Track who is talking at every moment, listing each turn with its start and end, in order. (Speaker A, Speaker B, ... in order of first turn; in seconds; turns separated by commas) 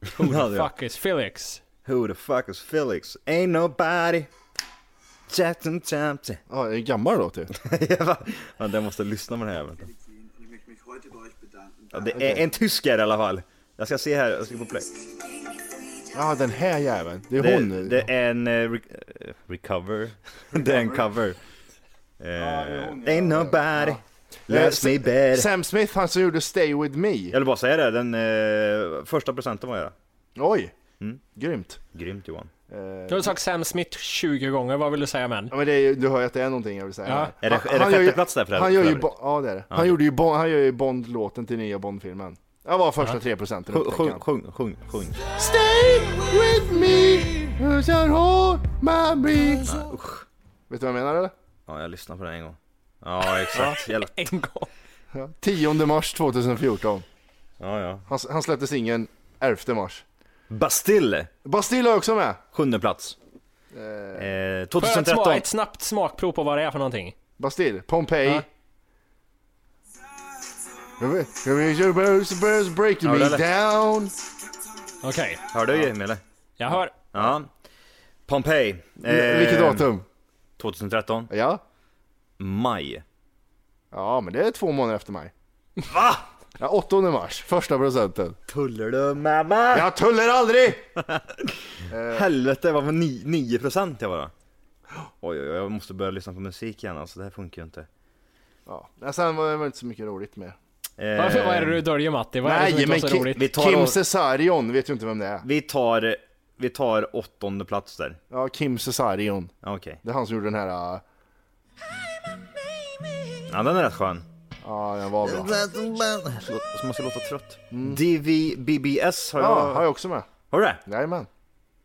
Speaker A: 0.1-0.7, Speaker B: 0.2-1.6, Speaker A: 1.8-4.3, Speaker A: 5.3-6.4, Speaker C: 6.5-7.5, Speaker A: 7.5-9.9, Speaker A: 11.9-14.9, Speaker C: 12.1-12.4, Speaker C: 16.1-18.1, Speaker A: 17.4-21.4, Speaker C: 20.5-21.0, Speaker A: 22.2-25.5, Speaker C: 22.4-27.3, Speaker A: 27.3-29.9, Speaker C: 30.4-30.7, Speaker C: 31.3-31.8, Speaker A: 31.9-32.5, Speaker C: 32.7-33.3, Speaker B: 33.1-35.5, Speaker C: 35.5-44.2, Speaker B: 37.1-37.3, Speaker A: 37.4-39.1, Speaker A: 39.7-40.0, Speaker A: 43.7-45.2, Speaker C: 45.3-49.8, Speaker A: 49.6-50.2, Speaker C: 50.7-51.3, Speaker A: 51.7-54.2, Speaker B: 53.5-54.7, Speaker C: 55.1-57.0, Speaker A: 57.6-58.0, Speaker C: 58.1-60.0, Speaker A: 60.5-61.3, Speaker C: 61.4-62.4, Speaker A: 62.5-63.1, Speaker C: 63.7-64.3, Speaker A: 64.2-65.4, Speaker B: 64.8-67.2, Speaker C: 67.4-68.5, Speaker C: 71.0-74.1, Speaker A: 73.0-73.5, Speaker B: 75.0-75.5, Speaker A: 75.5-76.2, Speaker B: 76.6-77.0, Speaker A: 77.1-77.5, Speaker A: 78.3-79.9, Speaker C: 79.0-80.0, Speaker A: 80.6-81.3, Speaker C: 81.3-81.6, Speaker A: 82.4-83.0, Speaker C: 83.9-85.3, Speaker A: 85.9-86.2, Speaker C: 86.6-88.4, Speaker A: 88.5-89.9, Speaker C: 89.7-90.9, Speaker A: 91.0-91.4, Speaker C: 91.9-92.2, Speaker A: 92.1-94.3, Speaker A: 95.2-97.9, Speaker C: 98.7-100.6, Speaker A: 101.0-101.8, Speaker B: 101.2-103.4, Speaker C: 102.4-105.5, Speaker A: 103.3-104.0, Speaker A: 105.4-108.2, Speaker C: 108.3-109.5, Speaker A: 109.6-110.0, Speaker C: 110.0-111.0, Speaker A: 113.5-114.2, Speaker C: 114.6-115.5, Speaker A: 115.2-119.8, Speaker C: 117.7-118.0, Speaker C: 119.4-120.3, Speaker A: 120.5-120.8, Speaker C: 120.8-121.3